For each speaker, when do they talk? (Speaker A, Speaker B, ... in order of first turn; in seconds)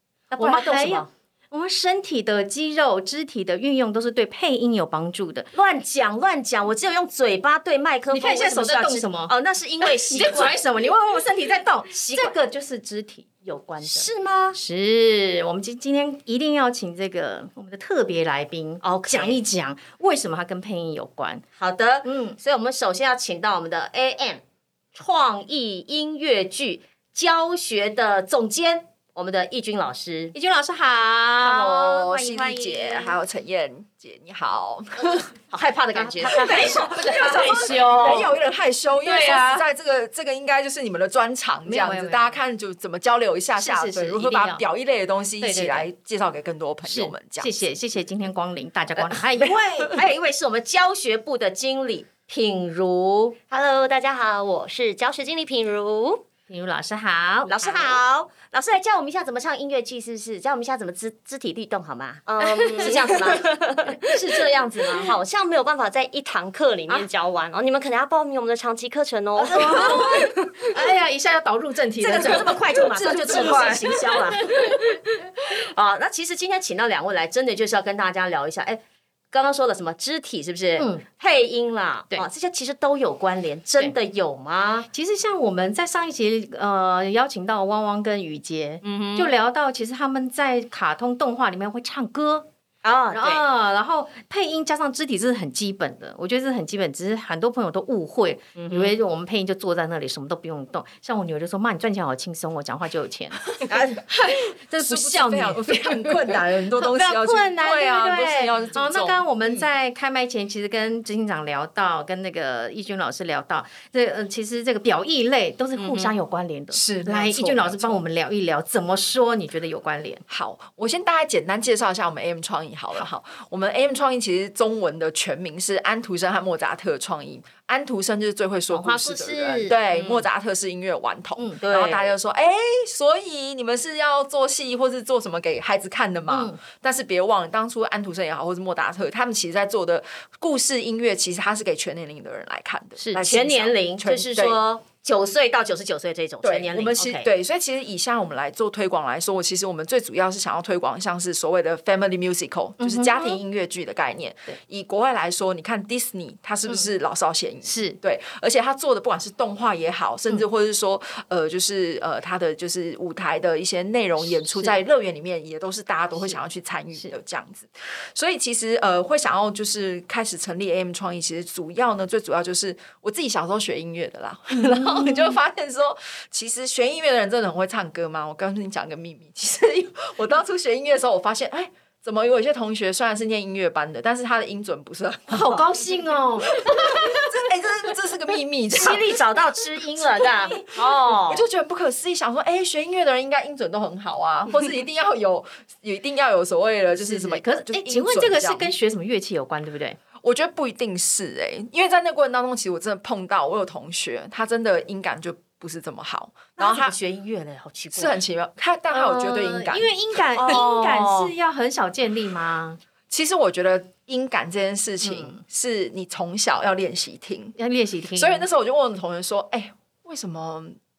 Speaker A: 0.3-1.1, 5.5-10.6, 11.9-12.3, 13.8-14.6, 18.8-19.4, 21.6-24.4, 24.9-30.3, 35.5-38.3, 49.1-53.4, 57.5-65.1, 69.4-70.7, 72.0-75.0, 75.5-84.9, 88.8-89.3, 92.8-93.4, 98.6-98.9, 103.7-104.1, 115.8-116.1, 129.9-130.2, 131.6-132.1, 143.2-147.3, 188.7-191.4, 206.6-208.2, 210.4-211.3
Speaker B: 0.4-5.5, 8.1-21.4, 22.0-22.4, 30.3-33.2, 35.9-38.3, 39.0-39.6, 41.7-42.4, 43.6-44.6, 45.4-45.9, 46.8-49.6, 56.5-57.5, 69.5-75.0, 80.8-81.0, 84.9-92.5, 93.1-103.5, 104.1-120.2, 128.7-129.8, 136.3-136.6, 143.0-143.3, 152.8-153.4, 157.7-158.0, 174.5-175.4, 185.3-187.2, 196.9-200.0, 208.9-212.8, 215.0-215.4, 217.6-218.4
Speaker C: 31.5-35.3, 36.2-47.6, 73.0-73.8, 104.3-109.7, 116.7-118.0, 120.3-144.6, 146.4-185.8, 186.4-189.2, 189.9-198.7, 200.2-207.0, 207.9-210.7, 213.1-217.6, 218.2-220.8
Speaker D: 53.5-56.2, 57.6-58.0, 62.3-70.0